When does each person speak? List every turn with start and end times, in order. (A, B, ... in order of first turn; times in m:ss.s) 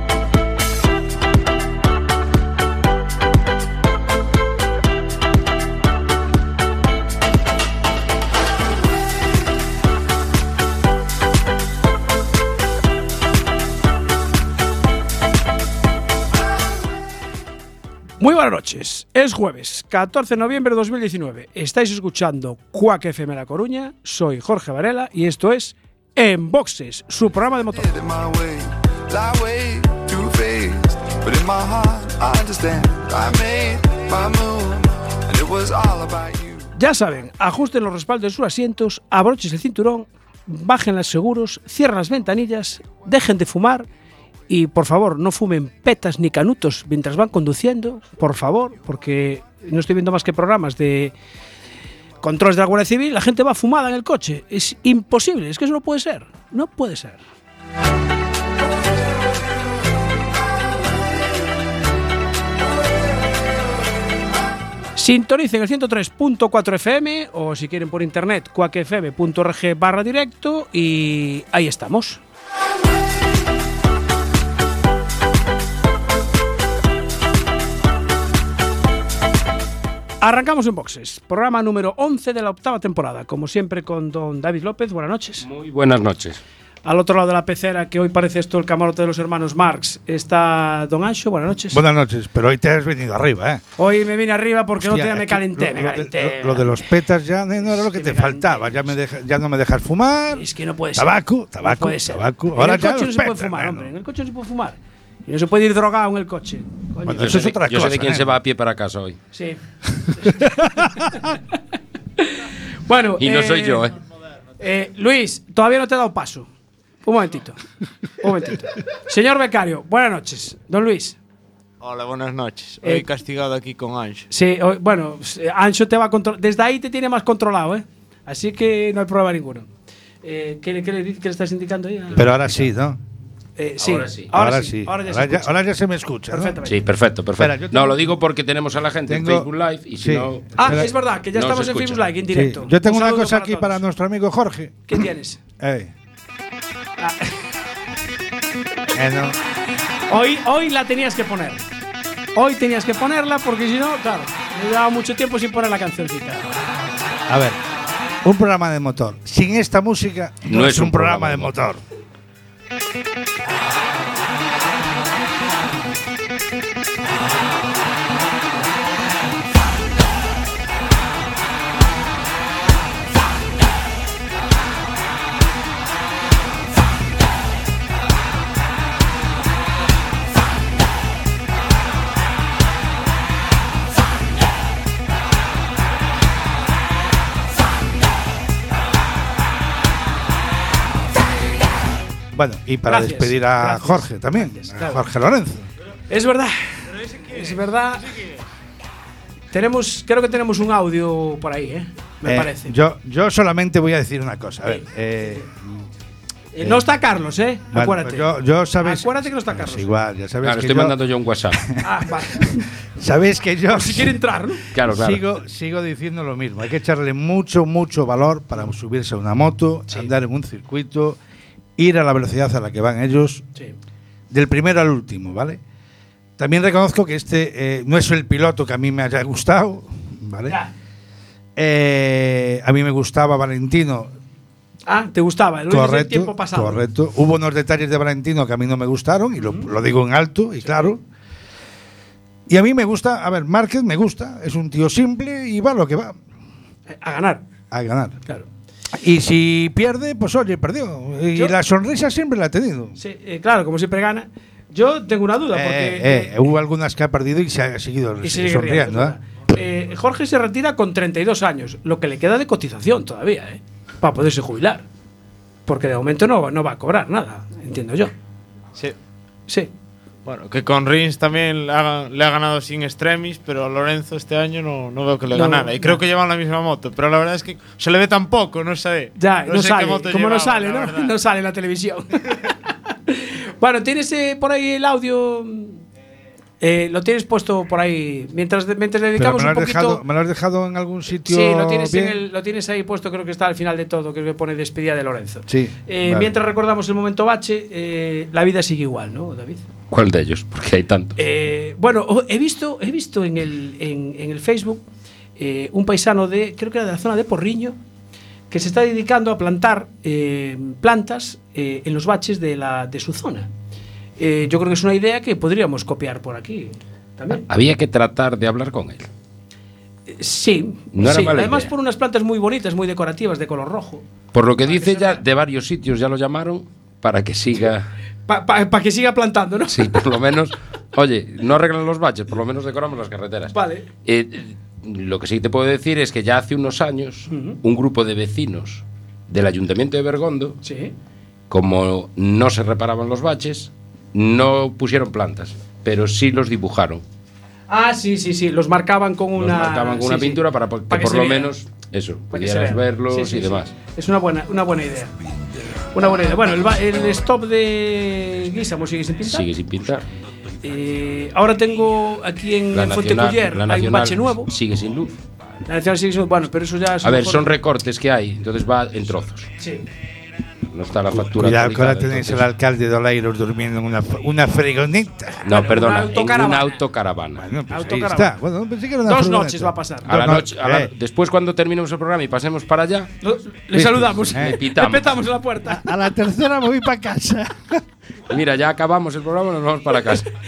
0:18.2-0:27.9 A
0:27.7-0:36.7 B
0:36.8-0:43.9 A
0:44.5-0:51.2 A
0:52.2-0:57.2 A
1:05.0-1:12.2 A
1:20.2-1:25.4 A
1:25.4-1:26.4 C
1:26.8-1:31.8 A
1:31.7-1:33.6 D
1:33.8-1:36.8 A
1:34.8-1:43.9 D
1:37.6-1:38.8 A
1:40.3-1:47.5 A
1:47.1-1:48.3 D
1:47.1-1:49.2 C
1:49.3-1:51.3 A
1:50.4-1:51.1 D
1:52.2-1:53.9 A
1:53.2-1:54.0 C
1:54.6-1:56.5 A
1:57.0-1:57.6 A
1:58.2-2:01.2 A
2:01.8-2:04.3 E
2:04.3-2:09.7 A
2:10.2-2:12.6 A
2:12.2-2:13.0 D
2:13.6-2:15.6 A
2:13.8-2:14.3 C
2:14.3-2:16.6 D
2:16.3-2:16.8 A
2:16.6-2:22.1 C
2:17.4-2:18.0 D
2:19.1-2:20.9 D
2:20.6-2:23.8 A
2:22.3-2:25.0 D
2:24.9-2:25.4 A
2:25.6-2:25.9 D
2:27.0-2:27.5 A
2:29.0-2:29.4 D
2:30.1-2:31.6 A
2:32.4-2:36.6 A
2:37.3-2:37.6 D
2:38.2-2:41.8 D
2:40.5-2:41.5 C
3:12.3-3:15.7 D
3:12.9-3:15.0 A
3:16.1-3:18.2 A
3:17.1-3:18.4 E
3:19.5-3:22.7 A
3:22.2-3:25.8 D
3:24.7-3:25.4 A
3:26.5-3:30.0 A
3:27.7-3:31.0 D
3:30.4-3:31.7 C
3:31.5-3:31.8 D
3:31.8-3:32.7 A
3:33.0-3:34.2 D
3:33.7-3:34.6 A
3:34.7-3:35.3 C
3:34.9-3:41.2 D
3:41.8-3:43.4 D
3:44.3-3:45.6 D
3:46.4-3:50.6 D
3:51.6-3:54.1 D
3:54.9-3:56.8 A
3:55.7-4:01.0 D
3:59.4-3:59.7 A
4:00.6-4:00.9 A
4:02.5-4:06.2 D
4:06.9-4:07.4 A
4:07.7-4:08.2 D
4:08.9-4:13.0 D
4:13.0-4:16.4 A
4:15.5-4:19.2 D
4:18.2-4:24.8 A
4:25.7-4:28.1 A
4:30.3-4:41.1 E
4:35.3-4:35.9 A
4:39.2-4:45.8 A
4:46.6-4:50.0 A
4:49.2-4:52.2 D
4:51.2-4:59.6 A
4:55.5-4:56.3 D
4:59.9-5:01.2 C
5:01.2-5:04.8 A
5:05.4-5:07.8 A
5:08.5-5:13.5 A
5:14.2-5:17.4 A
5:17.4-5:19.1 C
5:20.1-5:24.0 A
5:20.9-5:21.7 C
5:24.3-5:27.9 C
5:24.6-5:25.2 A
5:28.3-5:30.0 A
5:29.7-5:40.6 C
5:33.5-5:33.9 A
5:37.3-5:37.6 A
5:40.6-5:40.9 A
5:41.5-5:47.0 C
5:47.7-5:51.5 A
5:49.4-5:53.7 C
5:52.3-5:55.2 A
5:55.9-5:59.5 A
5:59.3-6:00.1 C
6:00.6-6:04.5 A
6:02.7-6:05.2 C
6:05.7-6:07.5 A
6:07.0-6:09.5 C
6:09.6-6:09.9 A
6:10.7-6:12.5 C
6:11.1-6:15.4 D
6:15.4-6:17.5 C
6:15.5-6:16.8 A
6:17.4-6:20.9 D
6:17.7-6:18.3 A
6:19.1-6:20.1 A
6:20.1-6:23.1 C
6:23.2-6:25.8 A
6:23.7-6:24.6 D
6:24.3-6:25.2 C
6:25.6-6:27.8 D
6:28.3-6:30.3 C